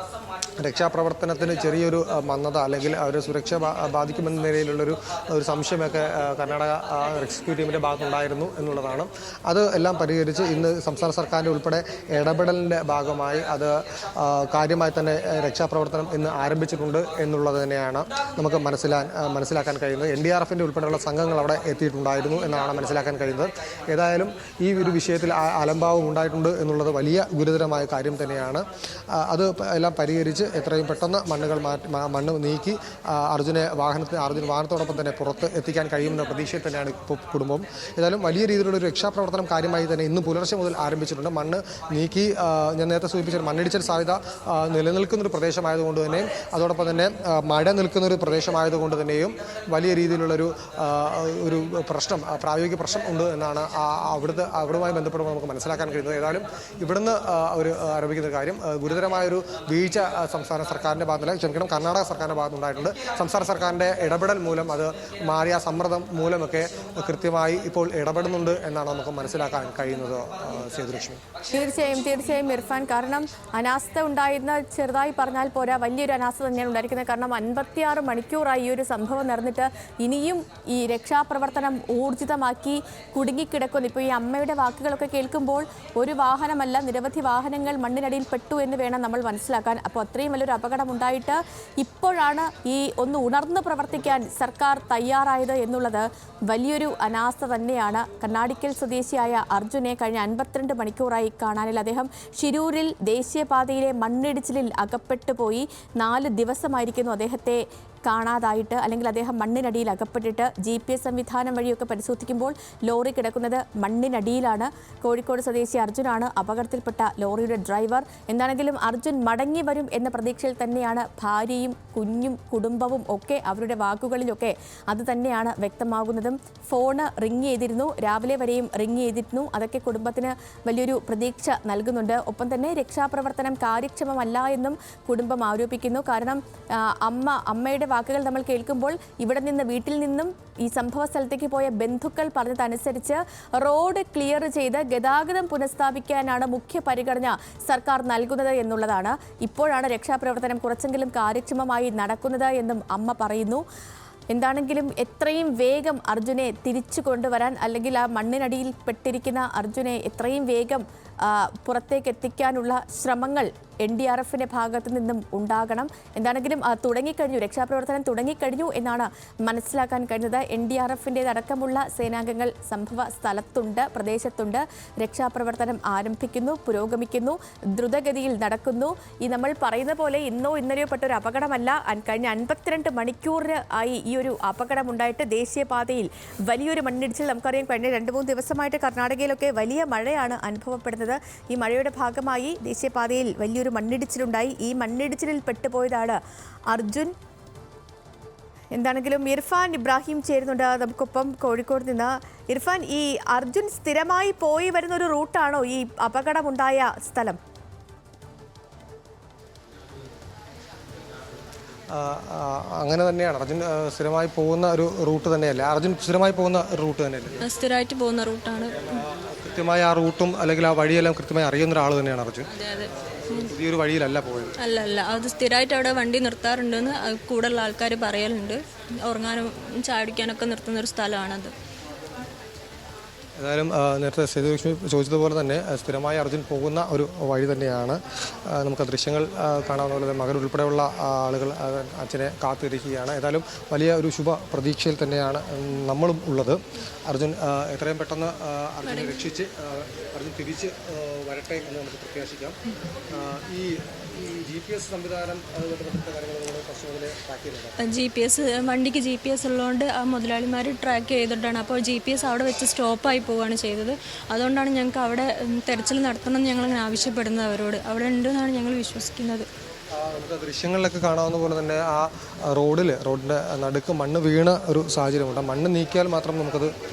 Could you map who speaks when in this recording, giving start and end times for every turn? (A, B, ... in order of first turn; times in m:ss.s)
0:00.6-1:11.2 A
1:11.5-2:33.6 B
2:34.3-3:17.1 B
3:18.7-3:27.4 B
3:31.9-3:37.4 A
3:37.4-3:39.0 C
3:38.9-3:42.5 A
3:42.5-3:43.5 C
3:43.2-3:44.5 A
3:44.6-3:51.5 C
3:53.4-4:12.6 A
4:08.9-4:09.2 C
4:13.1-4:17.8 A
4:17.8-4:29.5 C
4:29.9-4:36.7 A